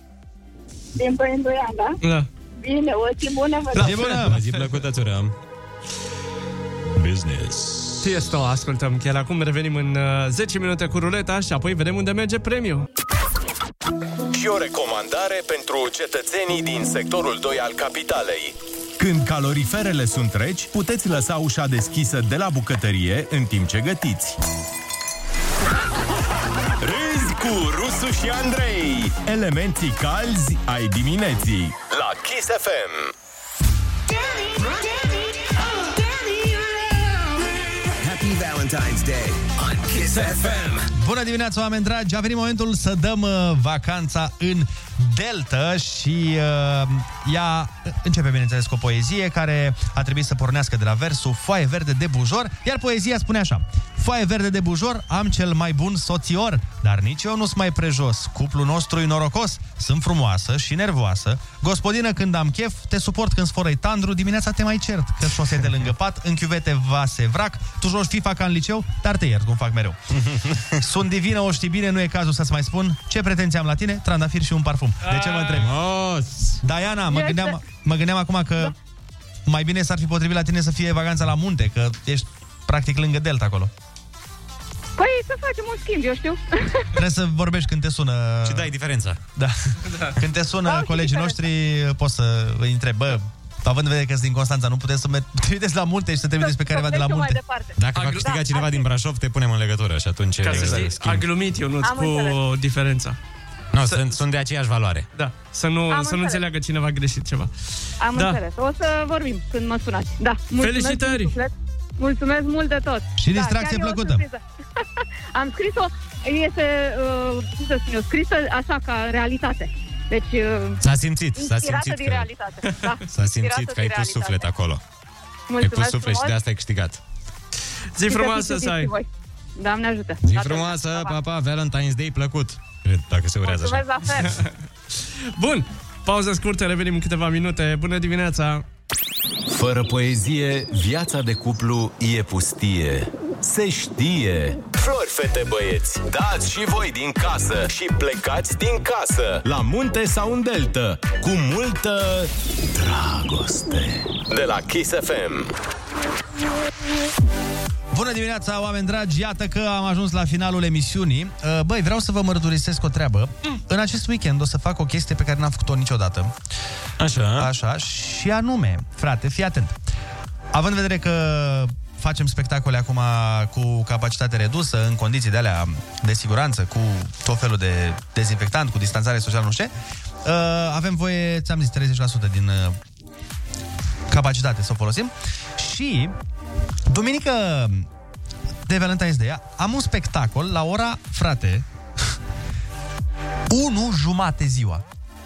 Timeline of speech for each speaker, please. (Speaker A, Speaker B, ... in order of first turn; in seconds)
Speaker A: 0.9-2.0, 2.6-4.0
Speaker B: 2.0-2.3, 3.8-4.7, 8.0-12.9, 75.0-75.6, 89.8-90.1, 97.9-98.3, 100.4-103.2, 103.8-104.2, 105.1-107.5, 108.1-108.4, 110.6-111.3, 122.6-123.0, 127.9-128.9, 135.3-138.6
Speaker C: 3.7-4.4, 40.1-70.0, 70.8-75.7, 76.6-78.7, 79.5-83.7, 86.9-88.7, 89.3-97.4, 113.2-114.2, 157.9-166.3, 167.4-169.8, 170.5-179.7, 180.2-182.8, 184.1-186.1, 186.9-187.9, 188.7-191.7, 193.5-194.8
Speaker D: 4.2-5.3, 70.1-70.7, 75.5-76.6, 88.4-89.2, 97.8-101.3, 103.7-105.1, 120.8-122.3, 123.1-124.8, 125.6-127.0, 130.2-134.3, 167.0-167.5
Speaker E: 7.0-7.9, 19.0-24.4, 26.8-27.5, 29.1-31.8, 139.5-144.6, 146.4-146.8, 149.4-154.1
Speaker F: 14.3-18.5, 27.3-29.1, 31.9-33.1, 144.7-149.4, 154.3-155.5
Speaker G: 38.0-40.9
Speaker H: 77.1-77.6, 85.0-86.8, 90.6-91.4, 96.4-98.8, 101.8-102.4, 105.9-106.4, 108.0-114.4, 115.0-120.8, 121.4-124.5, 125.5-126.3, 128.0-131.2, 133.4-134.3